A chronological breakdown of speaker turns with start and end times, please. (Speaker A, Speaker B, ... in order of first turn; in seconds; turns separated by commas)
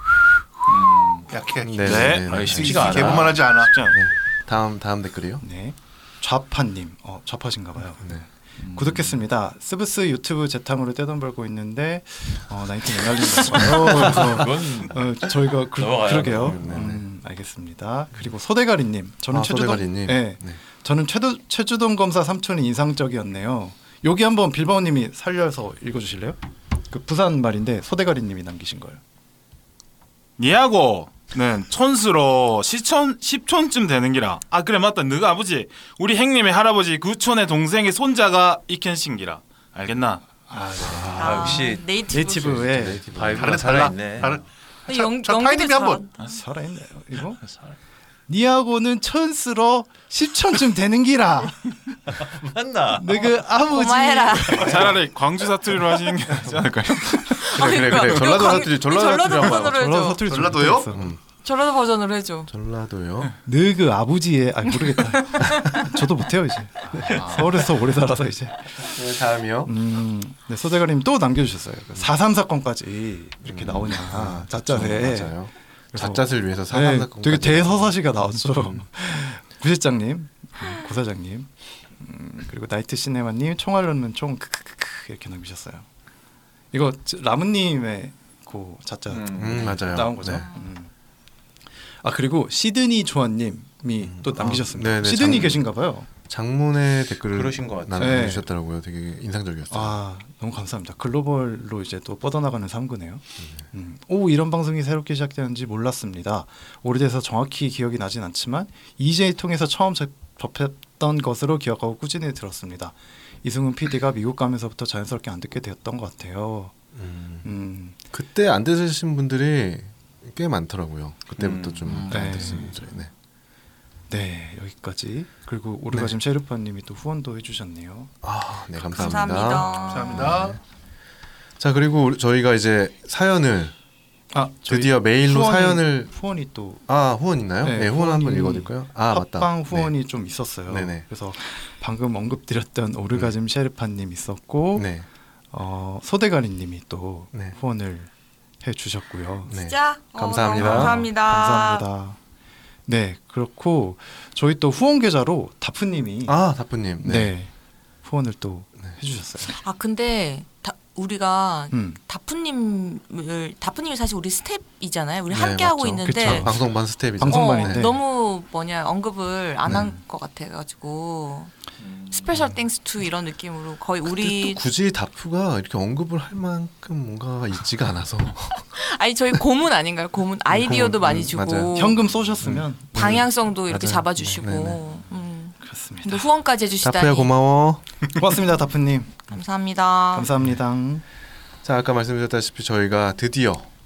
Speaker A: 0.7-1.3, Speaker B: 1.3-3.7, Speaker C: 1.7-3.4, Speaker A: 1.8-3.6, Speaker D: 1.9-2.3, Speaker D: 3.5-4.0, Speaker C: 3.9-5.4, Speaker E: 5.4-8.1, Speaker A: 8.6-9.2, Speaker E: 8.7-26.4, Speaker A: 13.6-16.8, Speaker C: 13.6-14.4, Speaker C: 16.3-17.0, Speaker C: 19.3-20.6, Speaker E: 26.9-29.0, Speaker D: 30.4-40.2, Speaker E: 40.5-43.1, Speaker A: 40.8-41.9, Speaker F: 41.2-42.7, Speaker A: 42.8-44.5, Speaker B: 43.3-46.0, Speaker F: 44.9-46.1, Speaker E: 46.2-47.4, Speaker A: 47.4-47.8, Speaker E: 48.3-51.7, Speaker A: 52.1-53.3, Speaker E: 52.9-55.0, Speaker F: 53.7-55.0, Speaker D: 54.5-57.8, Speaker F: 57.3-60.2, Speaker C: 57.4-59.9, Speaker E: 59.7-61.1, Speaker B: 60.2-61.0, Speaker C: 60.9-61.2, Speaker F: 61.4-62.5, Speaker C: 62.5-63.3, Speaker E: 63.5-68.9, Speaker F: 65.4-65.8, Speaker D: 67.0-67.5, Speaker C: 68.8-69.7, Speaker E: 69.7-75.4, Speaker C: 73.4-78.8, Speaker E: 75.9-85.9, Speaker E: 86.7-90.9, Speaker A: 89.1-90.0, Speaker C: 89.3-90.5, Speaker E: 92.0-96.1, Speaker C: 94.0-95.6, Speaker A: 95.2-95.6, Speaker C: 96.2-100.0, Speaker A: 97.3-98.2, Speaker E: 98.0-98.5, Speaker E: 99.7-116.7, Speaker C: 117.0-117.5, Speaker E: 117.4-118.0, Speaker C: 118.1-123.1, Speaker A: 121.4-122.8, Speaker E: 122.1-122.7, Speaker E: 124.1-128.1, Speaker C: 128.2-130.6, Speaker F: 128.8-130.3, Speaker B: 129.8-130.6, Speaker C: 131.6-133.8, Speaker E: 134.3-136.8, Speaker C: 134.7-136.1, Speaker C: 136.9-139.9, Speaker E: 137.6-144.9, Speaker C: 140.7-141.1, Speaker C: 144.8-145.1, Speaker E: 145.5-148.1, Speaker E: 148.6-149.5, Speaker C: 149.5-151.1, Speaker F: 149.5-151.8, Speaker E: 150.6-152.2, Speaker E: 152.9-156.4, Speaker C: 156.3-157.3, Speaker E: 157.0-157.5, Speaker E: 158.0-159.5, Speaker F: 159.5-166.6, Speaker E: 161.7-162.0, Speaker C: 165.3-167.9, Speaker E: 166.0-168.0, Speaker F: 167.3-171.5, Speaker C: 169.7-169.9, Speaker F: 172.1-174.6, Speaker C: 174.1-178.7, Speaker F: 178.8-182.0, Speaker C: 180.5-181.7, Speaker E: 181.7-183.2, Speaker C: 182.4-184.8, Speaker F: 182.9-187.3, Speaker E: 185.6-186.3, Speaker C: 186.8-187.8, Speaker E: 188.1-189.3, Speaker F: 189.3-190.3, Speaker E: 190.1-191.1, Speaker C: 191.6-193.7